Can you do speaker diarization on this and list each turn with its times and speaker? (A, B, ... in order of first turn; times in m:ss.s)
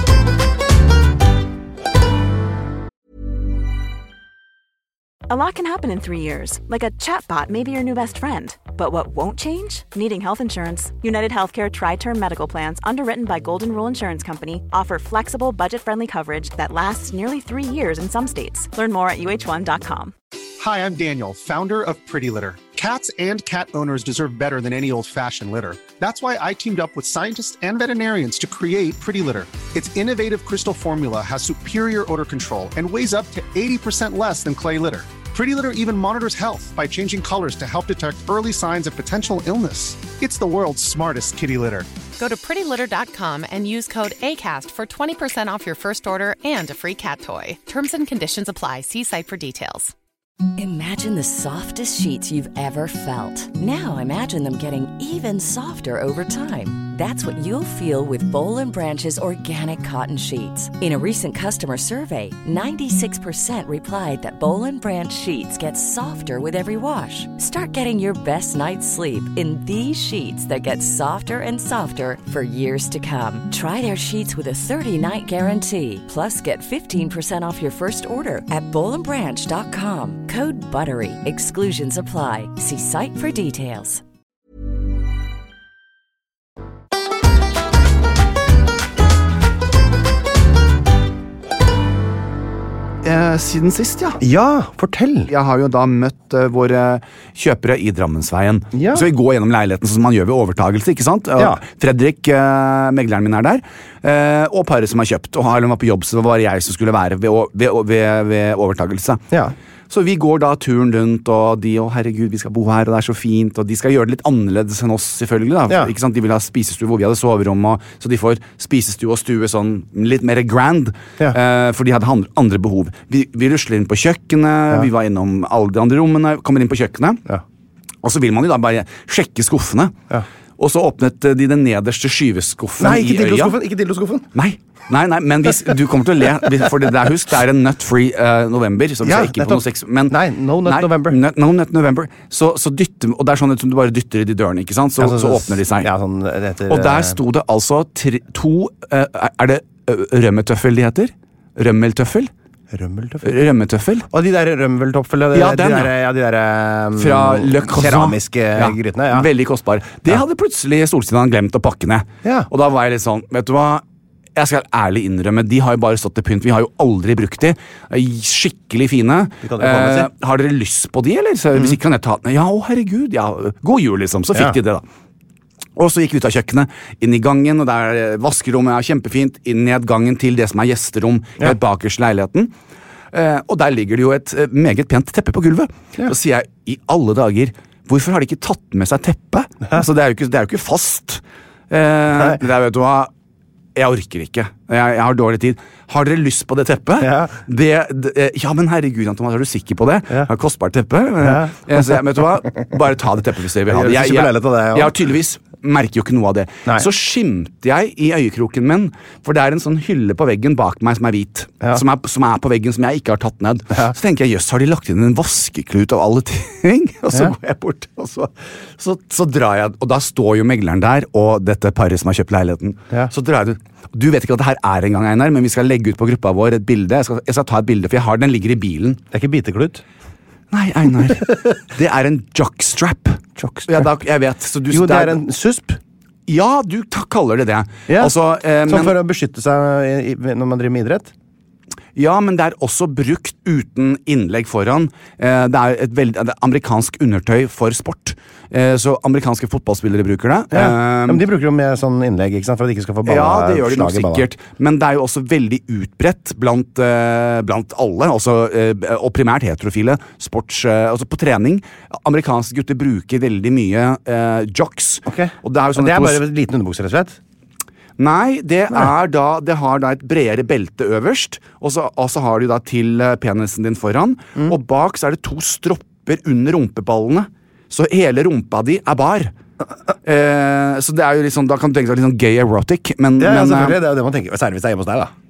0:05.3-0:20.1 A
0:20.6-0:41.9 B
0:42.2-0:49.9 C
0:50.6-1:24.0 D
1:33.0-1:34.2 E
1:34.2-1:35.3 F
1:35.3-1:49.2 E
1:38.7-1:39.1 F
1:49.9-2:07.2 E
2:08.0-2:10.0 E
2:10.6-2:13.6 E
2:12.8-2:14.3 F
2:14.3-2:25.9 E
2:19.0-2:21.2 F
2:25.0-2:27.2 F
2:26.7-2:32.3 E
2:32.7-2:33.3 F
2:33.2-2:34.1 E
2:34.1-2:39.3 F
2:35.3-2:35.9 E
2:37.0-2:43.8 E
2:42.2-2:42.5 F
2:44.4-2:54.8 E
2:49.4-2:50.1 F
2:55.8-3:02.5 E
3:03.1-3:13.1 E
3:13.8-3:49.0 E
3:17.0-3:17.3 F
3:21.2-3:21.6 F
3:23.7-3:24.9 F
3:49.1-3:49.8 F
3:50.5-3:55.2 E
3:53.4-3:53.9 F
3:54.7-3:55.8 F
3:56.3-3:59.0 E
3:57.9-3:58.1 F
3:58.7-4:01.1 F
4:02.0-4:11.2 E
4:10.5-4:14.3 F
4:13.0-4:26.2 E
4:25.1-4:27.2 F
4:28.0-4:39.3 E
4:40.0-4:43.8 E
4:43.2-4:45.1 F